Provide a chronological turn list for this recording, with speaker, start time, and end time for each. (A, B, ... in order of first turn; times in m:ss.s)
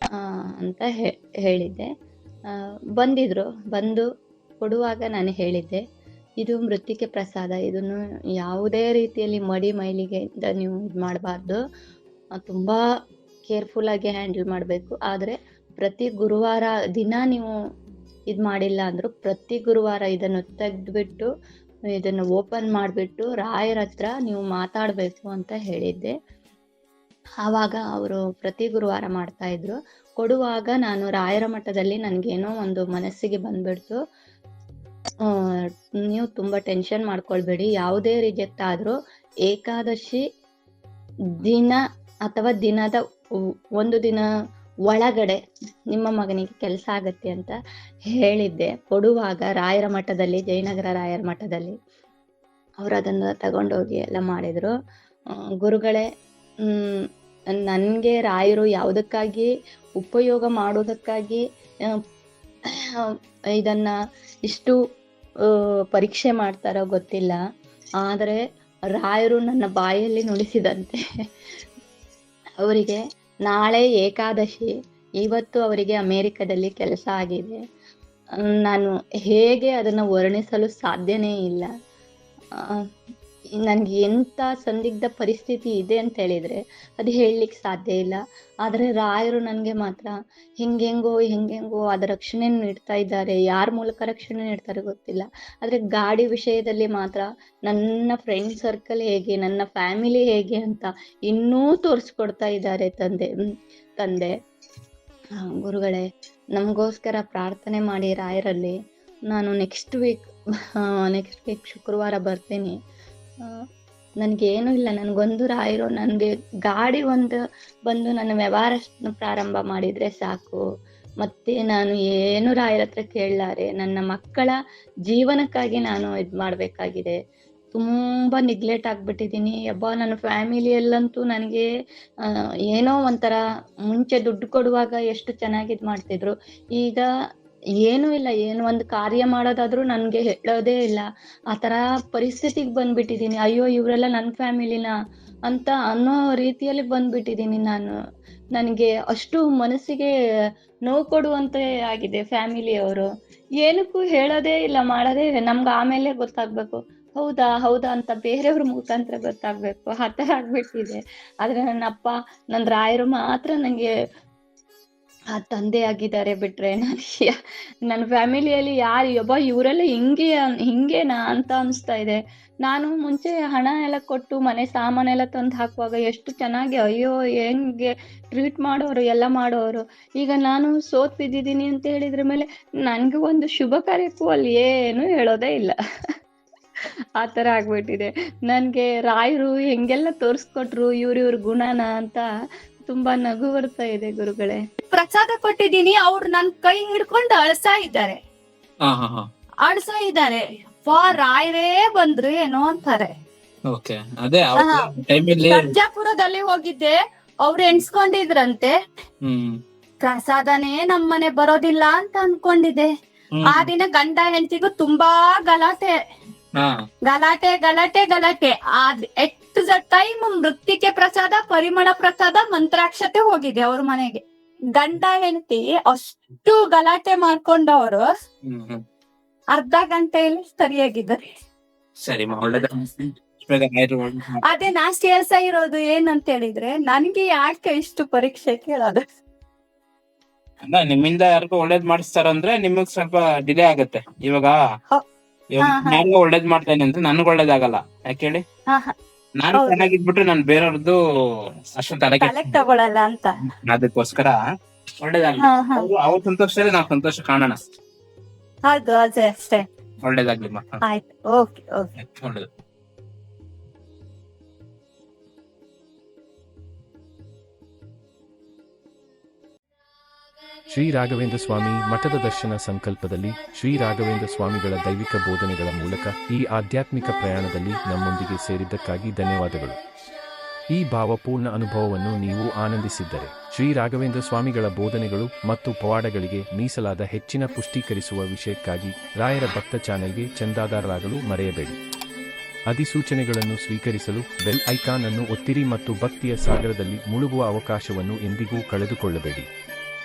0:00.6-0:01.9 A
0:03.0-0:04.0 A
0:04.6-0:05.8 A
0:06.4-0:11.6 A
0:12.4-0:12.8 A
0:13.5-0:17.5 A
0:18.3-0:21.3 A
0:22.0-0:26.1 A
0:27.4-0:34.0 A
0:36.0-0:38.9 A
0:39.4-0:40.2 A
0:41.4-0:43.0 A
0:43.8-0:44.2 A
0:44.9-0:45.4 A
0:45.9-0:47.5 A
0:48.1-0:51.7 A
0:52.8-0:54.7 A
0:55.6-0:56.0 A
0:56.7-0:57.0 A
0:57.6-1:01.4 A
1:03.6-1:03.9 A
1:04.5-1:04.8 A
1:05.9-1:07.4 A
1:08.0-1:08.4 A
1:08.9-1:11.0 A
1:12.6-1:14.7 A
1:15.2-1:17.6 A
1:18.6-1:21.7 A
1:23.6-1:43.3 A
1:44.0-1:44.3 A
1:45.4-1:46.0 A
1:46.5-1:48.7 A
1:49.3-1:50.2 A
1:51.0-1:52.7 A
1:54.2-2:00.6 A
2:01.2-2:04.5 A
2:05.1-2:07.2 A
2:07.7-2:11.7 A
2:12.7-2:13.4 A
2:13.9-2:17.0 A
2:17.8-2:24.9 A
2:25.5-2:27.9 A
2:28.5-2:30.1 A
2:30.9-2:33.1 A
2:33.6-2:43.9 A
2:45.3-2:47.3 A
2:47.9-3:05.7 A
3:07.2-3:12.3 A
3:12.9-3:14.6 A
3:14.9-3:18.2 B
3:18.9-3:19.2 C
3:19.6-3:23.1 B
3:23.7-3:25.7 C
3:24.6-3:28.7 B
3:29.2-3:29.5 C
3:30.0-3:32.9 B
3:33.4-3:33.7 C
3:33.5-3:35.9 B
3:37.0-3:44.2 B
3:44.7-3:48.0 B
3:48.5-3:48.8 C
3:49.5-3:51.3 B
3:52.0-3:52.7 C
3:53.4-3:54.4 C
3:54.4-3:59.0 B
4:00.6-4:04.6 C
4:05.5-4:08.4 C
4:05.6-4:06.0 B
4:09.4-4:11.0 C
4:09.6-4:09.9 B
4:11.8-4:12.6 C
4:12.2-4:13.3 B
4:13.7-4:14.4 C
4:15.0-4:17.6 C
4:15.4-4:15.9 B
4:18.7-4:19.6 B
4:20.0-4:20.8 C
4:20.8-4:21.9 B
4:22.0-4:22.4 C
4:30.7-4:39.8 D
4:40.7-4:51.8 D
4:52.7-4:59.5 D